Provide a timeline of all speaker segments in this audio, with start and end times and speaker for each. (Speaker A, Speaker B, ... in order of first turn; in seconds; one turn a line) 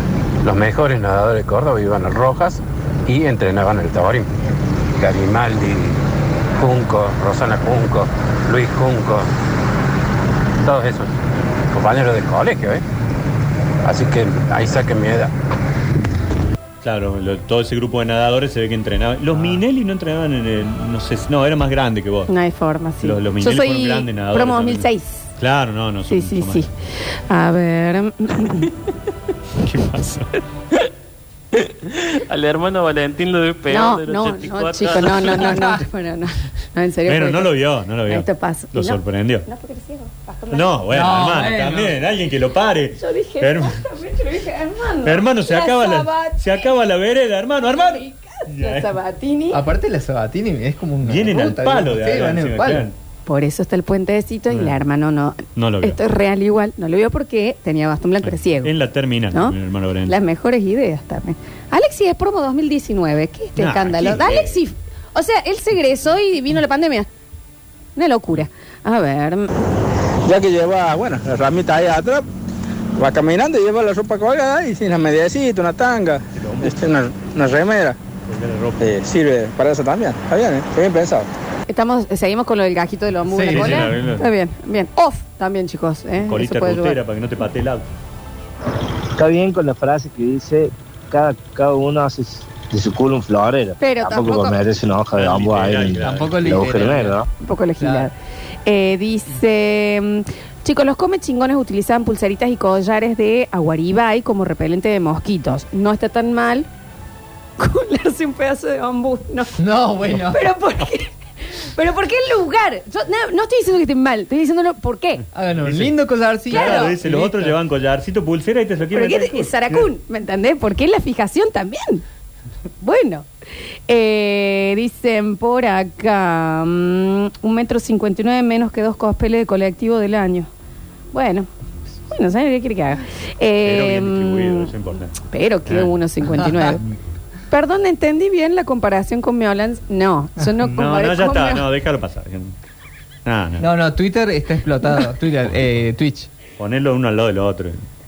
Speaker A: 0.4-4.3
Speaker A: 4.9-6.0
Speaker A: 6.5-9.3
Speaker A: 10.6-11.1
Speaker A: 11.7-12.8
Speaker A: 13.8-15.3
Speaker B: 16.8-22.3
Speaker C: 22.3-25.2
Speaker B: 23.0-26.6
Speaker C: 26.1-26.7
Speaker C: 27.3-28.7
Speaker B: 29.6-30.3
Speaker D: 32.1-35.6
Speaker C: 33.7-37.5
Speaker B: 37.0-39.5
Speaker C: 38.1-40.8
Speaker B: 40.5-43.9
Speaker E: 40.9-42.0
Speaker C: 43.0-46.7
Speaker B: 45.0-48.9
Speaker C: 47.7-49.6
Speaker E: 49.5-52.9
Speaker B: 51.0-52.9
Speaker C: 53.2-58.7
Speaker B: 54.5-54.8
Speaker B: 55.5-56.0
Speaker B: 58.6-60.2
Speaker C: 60.1-67.1
Speaker B: 63.6-64.6
Speaker C: 68.0-69.5
Speaker F: 70.2-72.2
Speaker F: 73.0-78.0
Speaker B: 76.3-76.8
Speaker B: 78.3-79.1
Speaker F: 78.8-81.3
Speaker C: 81.7-87.0
Speaker E: 83.3-83.9
Speaker B: 83.5-84.3
Speaker B: 86.2-87.9
Speaker G: 89.2-97.3
Speaker C: 93.8-94.6
Speaker B: 95.1-97.0
Speaker E: 95.9-97.1
Speaker C: 97.4-98.1
Speaker E: 97.8-98.1
Speaker C: 98.7-106.7
Speaker C: 107.6-109.6
Speaker E: 109.6-110.5
Speaker C: 110.2-115.2
Speaker E: 115.3-117.6
Speaker B: 115.6-115.9
Speaker B: 116.5-119.8
Speaker C: 116.5-116.9
Speaker C: 118.9-122.0
Speaker C: 122.8-123.2
Speaker C: 123.9-130.5
Speaker C: 131.1-131.5
Speaker C: 132.1-134.7
Speaker B: 133.6-135.9
Speaker C: 135.3-136.8
Speaker C: 137.5-141.6
Speaker B: 140.6-142.5
Speaker B: 143.2-143.7
Speaker E: 143.6-146.3
Speaker B: 146.6-147.8